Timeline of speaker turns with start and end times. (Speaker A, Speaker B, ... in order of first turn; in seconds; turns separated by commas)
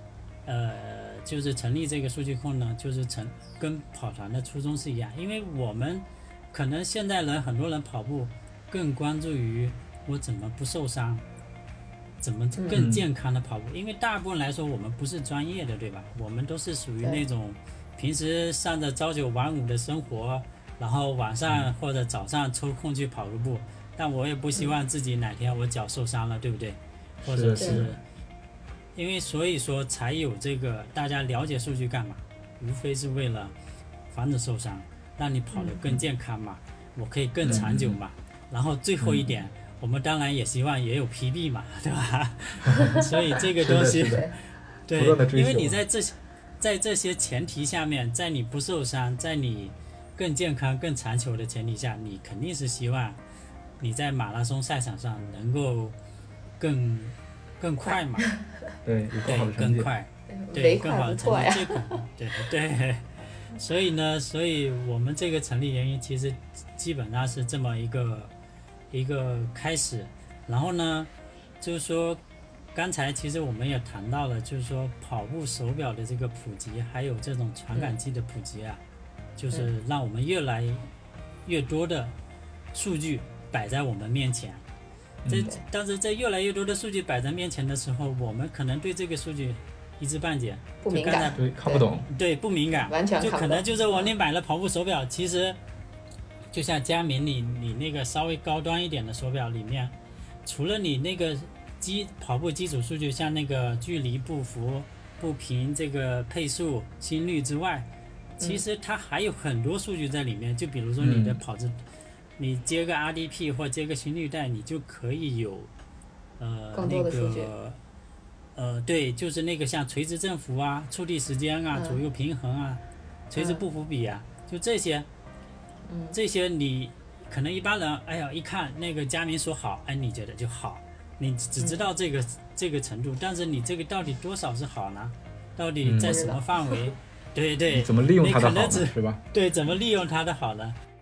Speaker A: 0.4-11.2, Speaker A: 12.2-28.0, Speaker B: 12.5-12.8, Speaker C: 12.7-13.0, Speaker C: 27.2-27.9, Speaker B: 27.6-27.8, Speaker A: 28.9-33.5, Speaker A: 34.1-44.2, Speaker B: 35.5-35.8, Speaker C: 37.4-38.0, Speaker C: 39.0-39.4, Speaker C: 43.6-44.3, Speaker B: 44.0-44.3, Speaker A: 44.8-53.2, Speaker C: 44.9-45.8, Speaker A: 53.8-56.0, Speaker A: 56.6-58.3, Speaker C: 58.8-59.9, Speaker A: 59.2-68.3, Speaker B: 60.3-62.0, Speaker A: 68.9-72.2, Speaker A: 72.7-78.8, Speaker A: 79.3-80.9, Speaker A: 81.4-82.1, Speaker A: 82.7-84.6, Speaker C: 85.2-85.5, Speaker A: 85.3-91.4, Speaker B: 90.8-91.9, Speaker C: 91.3-92.0, Speaker A: 92.0-95.6, Speaker B: 92.8-94.1, Speaker A: 96.5-99.9, Speaker A: 100.4-107.9, Speaker A: 108.4-111.8, Speaker C: 111.0-111.4, Speaker A: 112.4-115.7, Speaker A: 116.4-117.8, Speaker B: 116.7-117.5, Speaker A: 118.5-125.1, Speaker B: 121.7-122.0, Speaker B: 123.4-123.6, Speaker B: 125.9-126.2, Speaker A: 126.1-140.8, Speaker B: 131.6-131.8, Speaker C: 135.8-136.2, Speaker B: 136.0-136.8, Speaker C: 137.7-139.2